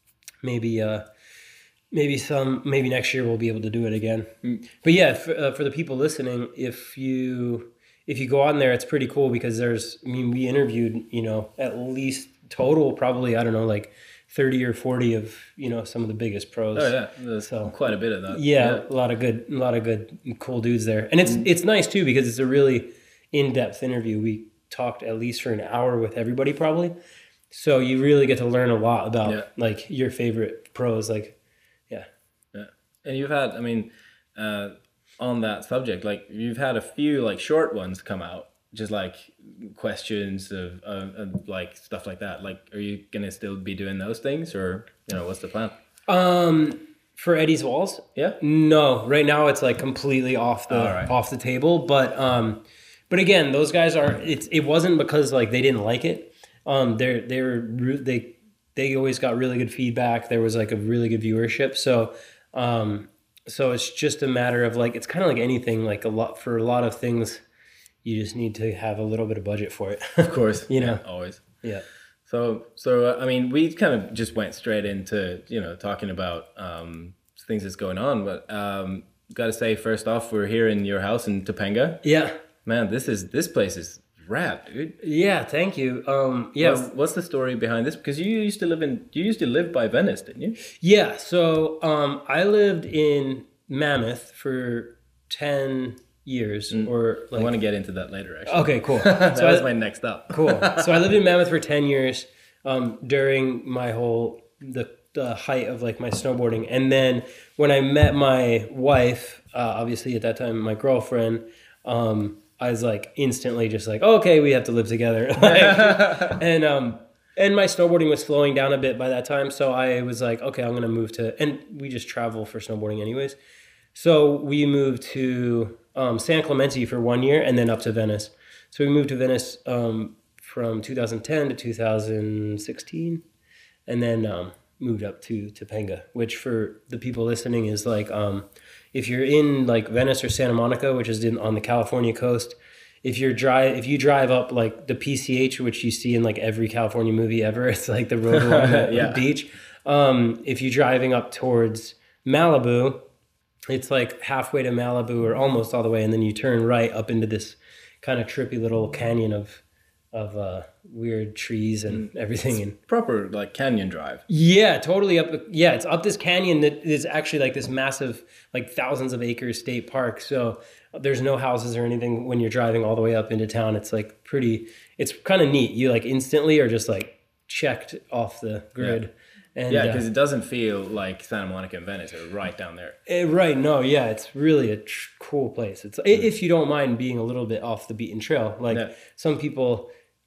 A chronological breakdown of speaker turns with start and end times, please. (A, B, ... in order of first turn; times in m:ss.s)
0:00.4-0:01.0 A
0:01.9-0:26.9 A
0:16.7-0:18.8 B
0:27.5-0:31.4 A
0:32.5-0:45.7 B
0:46.1-1:07.4 A
0:50.7-0:51.1 B
1:08.0-1:11.0 A
1:10.3-1:11.4 B
1:12.2-1:22.0 B
1:22.0-1:22.3 A
1:22.6-1:25.0 B
1:25.0-1:26.9 A
1:26.6-1:30.6 B
1:30.8-1:37.5 A
1:36.7-1:40.9 B
1:38.4-1:39.7 A
1:40.3-2:03.4 A
1:55.4-1:56.4 B
2:03.9-2:13.2 A
2:13.9-2:33.0 A
2:28.3-2:29.2 B
2:33.7-2:42.8 A
2:42.9-2:44.2 B
2:44.3-3:00.0 A
2:59.7-3:03.0 B
3:03.0-3:09.9 A